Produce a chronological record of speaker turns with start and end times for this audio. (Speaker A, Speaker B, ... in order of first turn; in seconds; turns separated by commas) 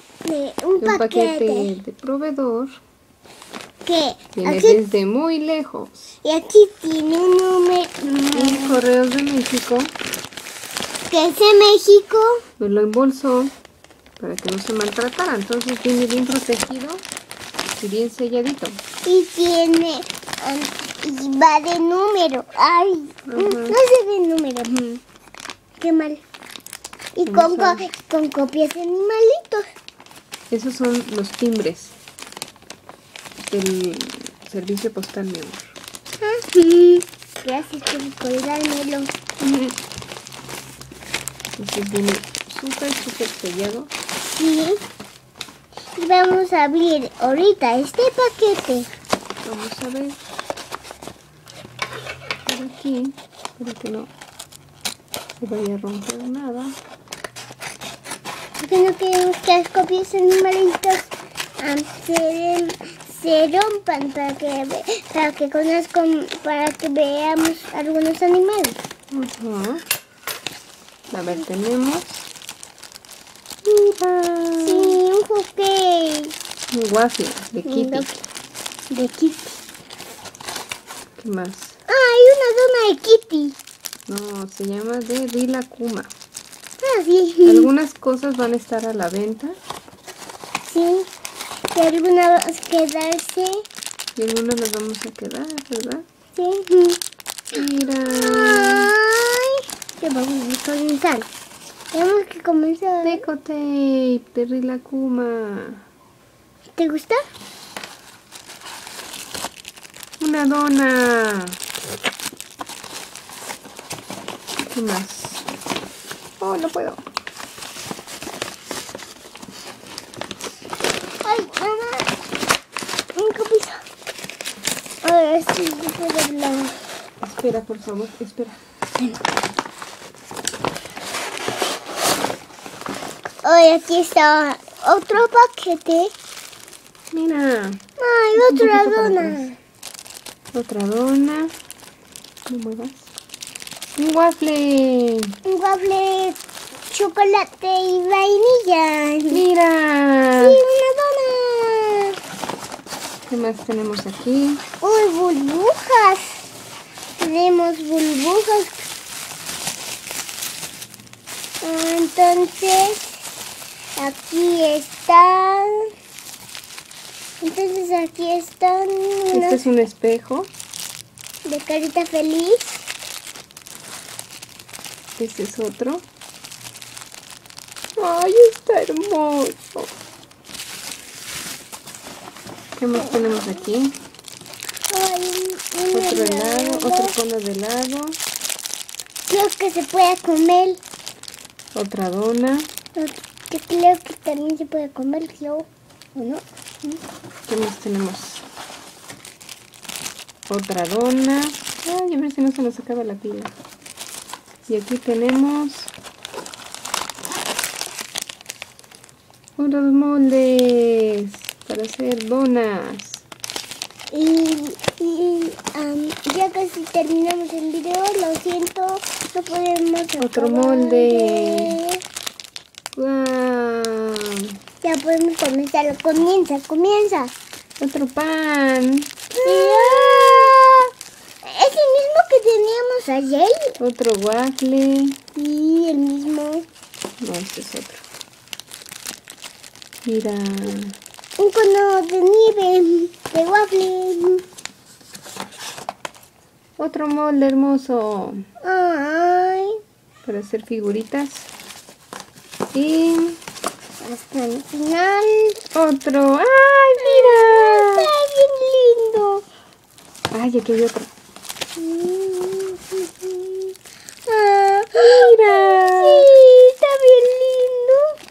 Speaker A: 0.2-1.7, Speaker B: 0.8-2.8, Speaker A: 3.8-4.8, Speaker B: 4.3-6.1, Speaker A: 6.2-8.8, Speaker B: 8.3-9.9, Speaker A: 11.1-12.3, Speaker B: 12.6-13.5, Speaker B: 14.2-17.0, Speaker B: 17.8-18.8, Speaker A: 19.0-24.8, Speaker B: 23.3-23.8, Speaker B: 24.6-25.0, Speaker A: 25.8-26.2, Speaker A: 27.1-29.6, Speaker B: 27.2-27.9, Speaker B: 30.5-32.0, Speaker B: 33.4-35.7, Speaker A: 36.2-39.1, Speaker B: 39.4-39.8, Speaker B: 41.5-43.9, Speaker A: 44.3-44.8, Speaker A: 46.0-48.9, Speaker B: 49.4-50.2, Speaker B: 52.5-54.1, Speaker B: 55.4-56.8, Speaker A: 58.6-68.8, Speaker B: 69.1-69.8, Speaker B: 71.1-72.3, Speaker B: 73.6-75.0, Speaker A: 74.6-76.3, Speaker B: 76.7-78.2, Speaker A: 77.6-78.0, Speaker A: 78.9-79.6, Speaker B: 81.2-81.8, Speaker A: 81.9-83.6, Speaker B: 84.1-86.1, Speaker A: 86.8-87.7, Speaker B: 87.4-89.5, Speaker A: 90.6-91.1, Speaker A: 91.7-93.6, Speaker B: 94.2-96.0, Speaker A: 96.3-97.0, Speaker B: 97.5-98.9, Speaker A: 98.1-101.3, Speaker A: 101.9-103.2, Speaker B: 103.0-105.8, Speaker A: 106.8-107.2, Speaker B: 110.2-111.6, Speaker B: 114.6-115.4, Speaker B: 116.4-117.0, Speaker A: 121.2-122.1, Speaker A: 123.1-123.8, Speaker A: 125.0-126.7, Speaker B: 127.2-128.6, Speaker A: 133.4-136.1, Speaker B: 137.1-137.8, Speaker A: 138.0-139.5, Speaker B: 138.3-139.5, Speaker B: 140.5-141.5, Speaker B: 142.5-143.1, Speaker B: 143.9-145.3, Speaker A: 145.4-146.4, Speaker A: 146.9-149.4, Speaker B: 149.3-150.6, Speaker A: 150.3-152.1, Speaker B: 153.3-154.6, Speaker A: 154.8-156.4, Speaker A: 157.2-158.9, Speaker A: 161.6-163.2, Speaker A: 164.0-165.8, Speaker A: 167.4-169.6, Speaker B: 169.3-170.5, Speaker A: 171.4-172.9, Speaker B: 175.2-176.1, Speaker B: 178.0-179.9, Speaker B: 182.8-183.9, Speaker A: 184.9-187.1, Speaker B: 185.9-188.2, Speaker A: 189.3-190.8, Speaker B: 191.7-192.7, Speaker A: 192.9-196.4, Speaker B: 197.5-198.4, Speaker B: 200.5-203.5, Speaker B: 204.7-205.9, Speaker B: 209.6-213.2, Speaker A: 214.1-222.0, Speaker B: 220.2-221.8, Speaker B: 222.9-224.2, Speaker A: 224.8-227.3, Speaker B: 227.8-230.6, Speaker A: 229.4-230.9, Speaker A: 231.4-233.7, Speaker B: 233.8-235.2, Speaker A: 235.3-236.6, Speaker B: 237.2-238.0, Speaker B: 240.0-240.9, Speaker A: 241.4-244.4, Speaker B: 246.8-248.4, Speaker A: 248.6-249.8, Speaker B: 250.2-251.5, Speaker B: 252.7-253.4, Speaker A: 254.0-255.6, Speaker B: 255.7-258.1, Speaker A: 257.0-259.4, Speaker B: 260.3-261.1, Speaker A: 261.8-263.7, Speaker A: 264.3-268.0, Speaker B: 265.0-266.3